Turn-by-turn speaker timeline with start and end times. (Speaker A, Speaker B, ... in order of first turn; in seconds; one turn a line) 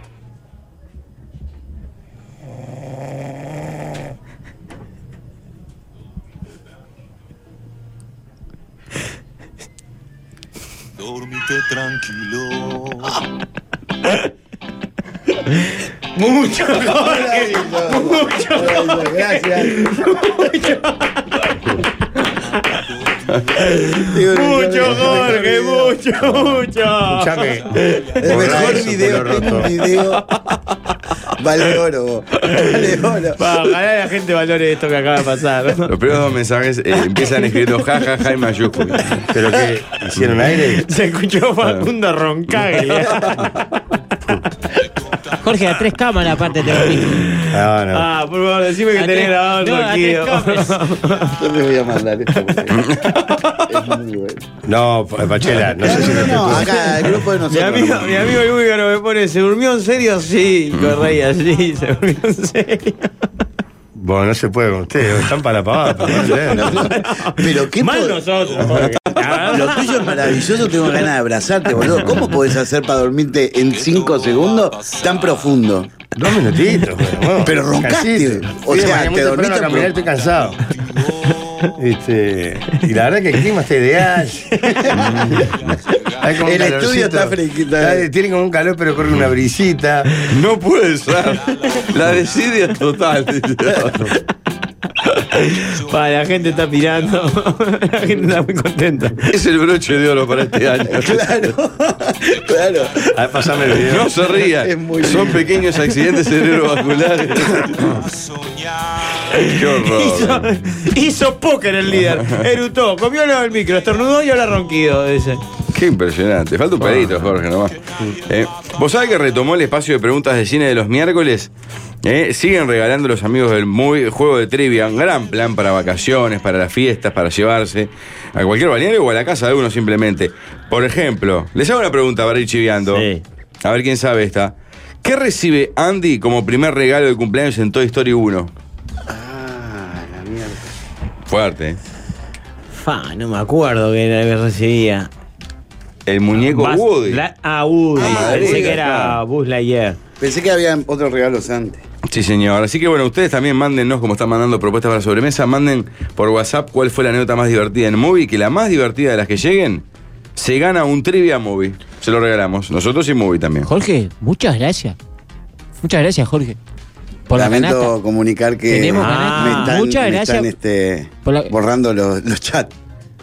Speaker A: 16.1-21.4
Speaker B: 16.8-20.2
Speaker A: 22.5-22.8
Speaker A: 23.6-29.1
Speaker B: 23.9-26.0
Speaker C: 25.0-25.3
Speaker C: 27.1-29.7
Speaker B: 28.2-30.2
Speaker B: 31.3-33.4
Speaker A: 32.5-32.8
Speaker A: 33.4-35.9
Speaker D: 35.9-39.3
Speaker C: 39.3-40.8
Speaker A: 40.7-43.5
Speaker D: 43.0-43.5
Speaker E: 45.4-47.4
Speaker A: 47.1-51.4
Speaker C: 47.5-48.0
Speaker E: 48.9-50.8
Speaker B: 51.3-52.9
Speaker D: 52.7-53.2
Speaker B: 53.6-54.4
Speaker C: 54.6-56.9
Speaker B: 55.8-58.3
Speaker A: 56.4-63.1
Speaker C: 64.0-66.8
Speaker A: 66.1-71.0
Speaker B: 66.5-68.2
Speaker B: 69.5-76.0
Speaker C: 76.1-80.6
Speaker B: 77.4-80.0
Speaker C: 81.7-85.1
Speaker B: 84.7-85.2
Speaker C: 86.2-90.2
Speaker B: 86.4-88.1
Speaker D: 90.2-94.1
Speaker A: 95.1-99.3
Speaker D: 99.3-101.4
Speaker B: 100.9-103.0
Speaker C: 103.1-104.1
Speaker D: 103.8-108.0
Speaker B: 104.4-105.5
Speaker A: 109.2-115.4
Speaker D: 109.5-110.5
Speaker D: 112.1-112.4
Speaker D: 115.7-121.5
Speaker D: 122.0-133.1
Speaker A: 132.9-133.2
Speaker D: 133.6-138.5
Speaker B: 139.1-140.6
Speaker D: 141.3-141.8
Speaker A: 142.7-145.1
Speaker D: 146.1-147.2
Speaker A: 146.3-150.0
Speaker B: 148.0-148.8
Speaker D: 148.0-149.2
Speaker B: 150.2-151.8
Speaker D: 152.1-159.8
Speaker D: 160.3-163.7
Speaker E: 163.6-164.9
Speaker E: 165.8-166.6
Speaker E: 167.3-167.9
Speaker B: 167.3-172.7
Speaker E: 168.7-170.5
Speaker A: 168.9-169.8
Speaker E: 171.2-171.5